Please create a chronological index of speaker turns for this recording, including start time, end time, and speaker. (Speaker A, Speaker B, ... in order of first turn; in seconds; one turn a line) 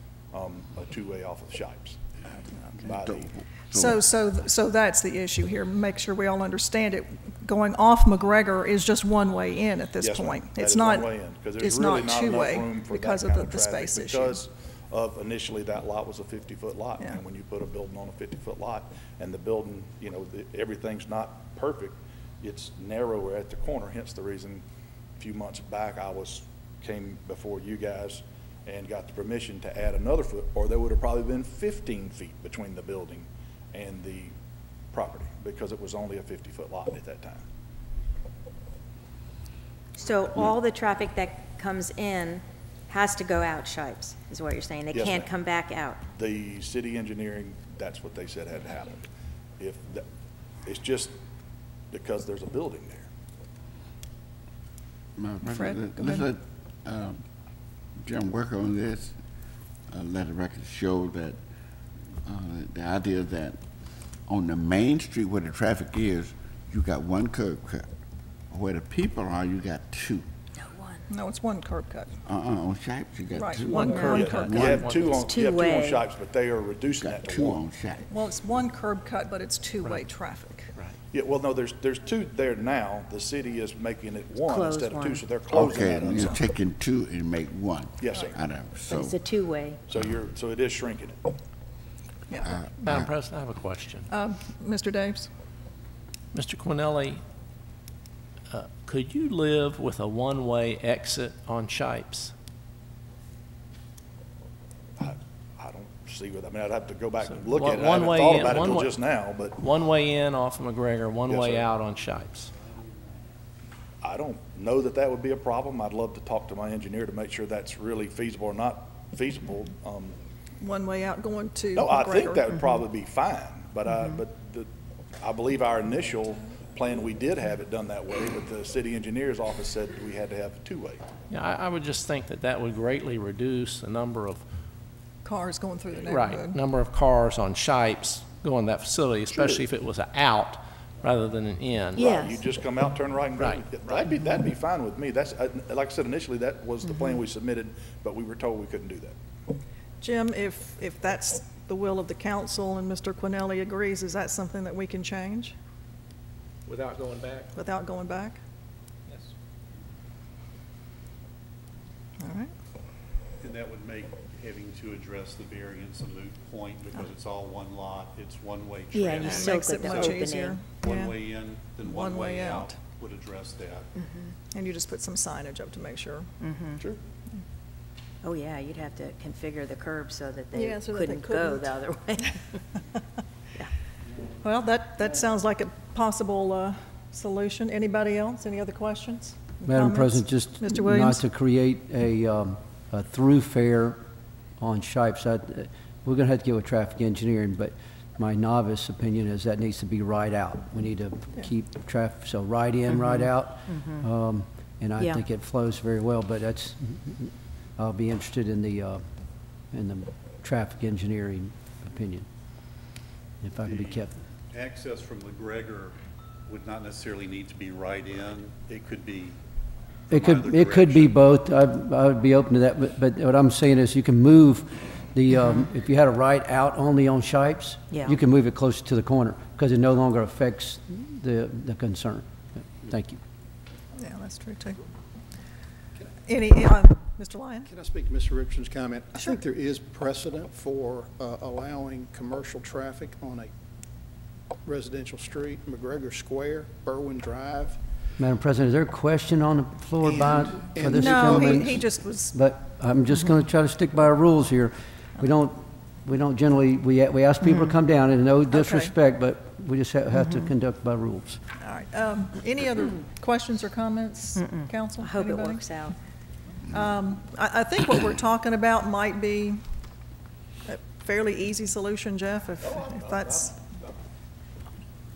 Speaker A: 0.3-2.0
Speaker A: 2.7-3.3
Speaker B: 2.8-4.0
Speaker C: 3.7-14.4
Speaker A: 10.0-24.6
Speaker A: 25.2-34.3
Speaker A: 34.9-37.4
Speaker D: 40.0-46.0
Speaker A: 44.9-45.3
Speaker A: 46.1-49.0
Speaker A: 49.6-50.0
Speaker A: 50.6-51.1
Speaker A: 51.9-53.1
Speaker B: 55.2-57.2
Speaker C: 55.4-56.2
Speaker B: 58.0-59.1
Speaker B: 59.9-61.4
Speaker B: 62.2-63.6
Speaker B: 64.3-67.9
Speaker B: 68.5-70.3
Speaker D: 70.5-71.0
Speaker C: 71.1-72.1
Speaker B: 72.2-74.7
Speaker C: 73.3-74.8
Speaker E: 73.7-75.2
Speaker A: 74.1-77.6
Speaker D: 75.0-76.0
Speaker B: 76.9-78.0
Speaker C: 78.1-80.7
Speaker A: 81.1-86.4
Speaker D: 84.4-85.4
Speaker B: 85.5-89.2
Speaker A: 88.0-88.3
Speaker D: 88.9-89.8
Speaker A: 89.9-91.3
Speaker B: 92.4-93.1
Speaker E: 92.8-94.1
Speaker C: 94.1-95.3
Speaker E: 96.3-97.2
Speaker E: 98.5-102.3
Speaker A: 105.0-109.6
Speaker E: 107.3-109.0
Speaker E: 109.6-112.5
Speaker A: 111.3-111.7
Speaker A: 114.0-120.2
Speaker C: 120.6-122.6
Speaker A: 121.7-124.7
Speaker A: 125.2-131.0
Speaker E: 131.3-134.4
Speaker C: 135.2-136.6
Speaker E: 136.0-142.1
Speaker A: 139.3-139.6
Speaker A: 141.9-149.2
Speaker D: 142.0-142.4
Speaker C: 150.0-155.6
Speaker E: 156.7-157.5
Speaker C: 157.5-158.4
Speaker C: 162.2-162.5
Speaker F: 163.4-173.9
Speaker D: 168.9-170.5
Speaker C: 169.2-171.1
Speaker C: 171.8-172.8
Speaker D: 174.0-174.3
Speaker C: 174.5-176.3
Speaker D: 176.4-176.8
Speaker D: 178.2-182.6
Speaker C: 180.5-181.7
Speaker C: 184.4-191.2
Speaker G: 189.6-194.0
Speaker G: 194.6-209.0
Speaker D: 203.7-204.0
Speaker G: 209.7-212.2
Speaker G: 213.4-214.2
Speaker F: 213.5-219.4
Speaker F: 220.1-221.1
Speaker G: 220.1-233.2
Speaker D: 227.9-228.2
Speaker C: 234.0-234.8
Speaker C: 236.2-237.7
Speaker H: 237.7-243.5
Speaker H: 244.7-247.8
Speaker G: 248.2-261.4
Speaker H: 250.0-251.6
Speaker C: 250.9-252.3
Speaker C: 258.5-258.9
Speaker C: 261.6-265.6
Speaker D: 264.4-265.9
Speaker C: 266.7-269.6
Speaker C: 270.7-273.6
Speaker A: 272.6-273.5